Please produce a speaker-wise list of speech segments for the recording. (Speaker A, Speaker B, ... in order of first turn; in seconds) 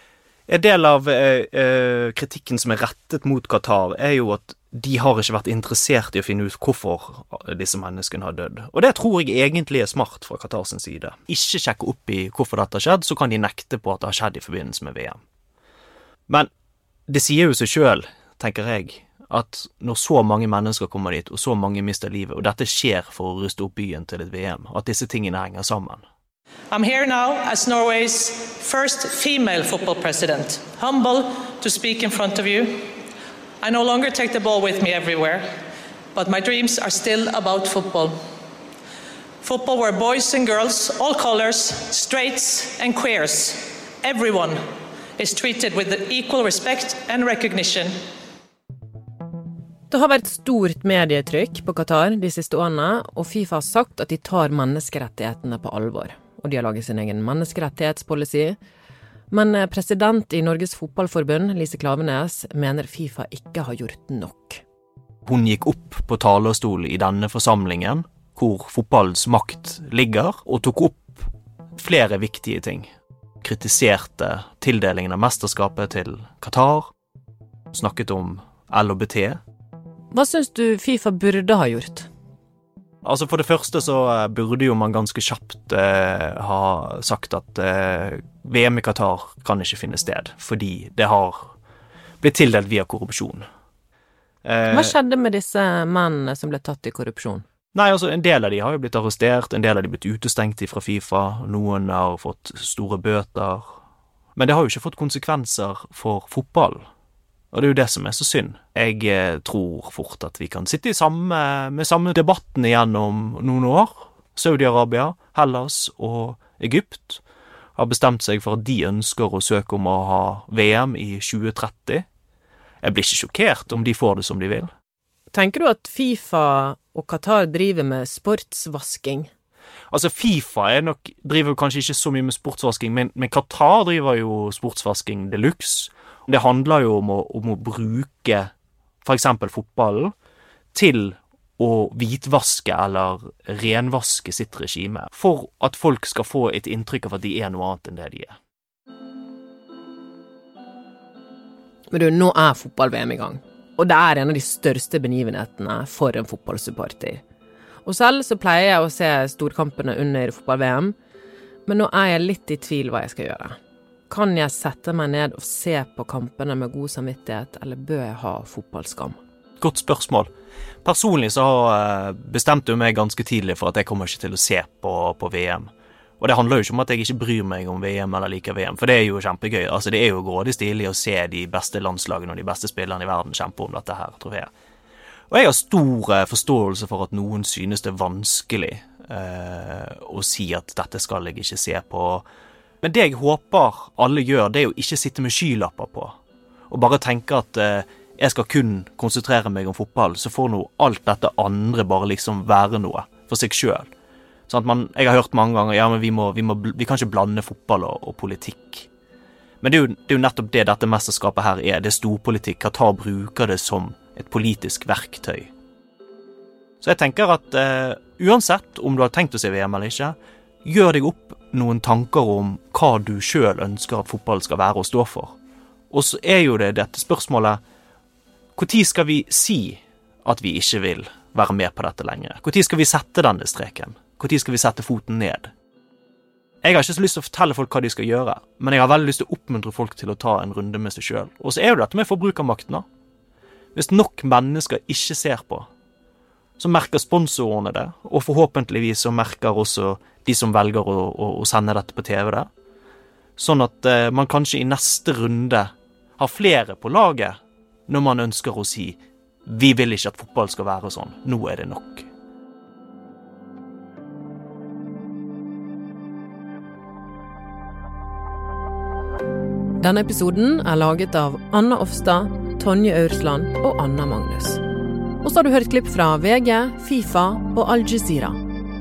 Speaker A: 0.5-15.2, 17.1-26.0, 65.2-72.9, 73.4-76.9, 77.7-79.4, 83.0-91.5, 92.2-93.4, 94.4-94.9, 97.7-103.6, 104.3-106.8, 107.5-117.2, 117.8-122.0, 122.8-124.7, 129.9-138.5, 139.0-140.1, 140.7-148.3, 169.6-170.3, 170.8-175.7, 176.2-184.5, 185.3-192.2, 192.8-196.2, 196.7-203.9, 204.5-208.9, 209.6-215.5, 216.8-225.3, 225.9-227.6, 228.6-235.5, 236.6-242.8, 243.7-245.7, 246.6-252.5, 253.4-262.1
Speaker B: 26.7-32.6, 33.6-35.4, 36.1-38.1, 39.4-44.5, 45.2-47.9
Speaker C: 49.9-58.6, 59.3-64.6, 80.1-82.1, 94.7-97.4, 125.3-129.3, 151.9-157.2, 157.8-160.9, 161.7-163.6, 164.1-169.2, 269.8-274.6, 275.2-278.4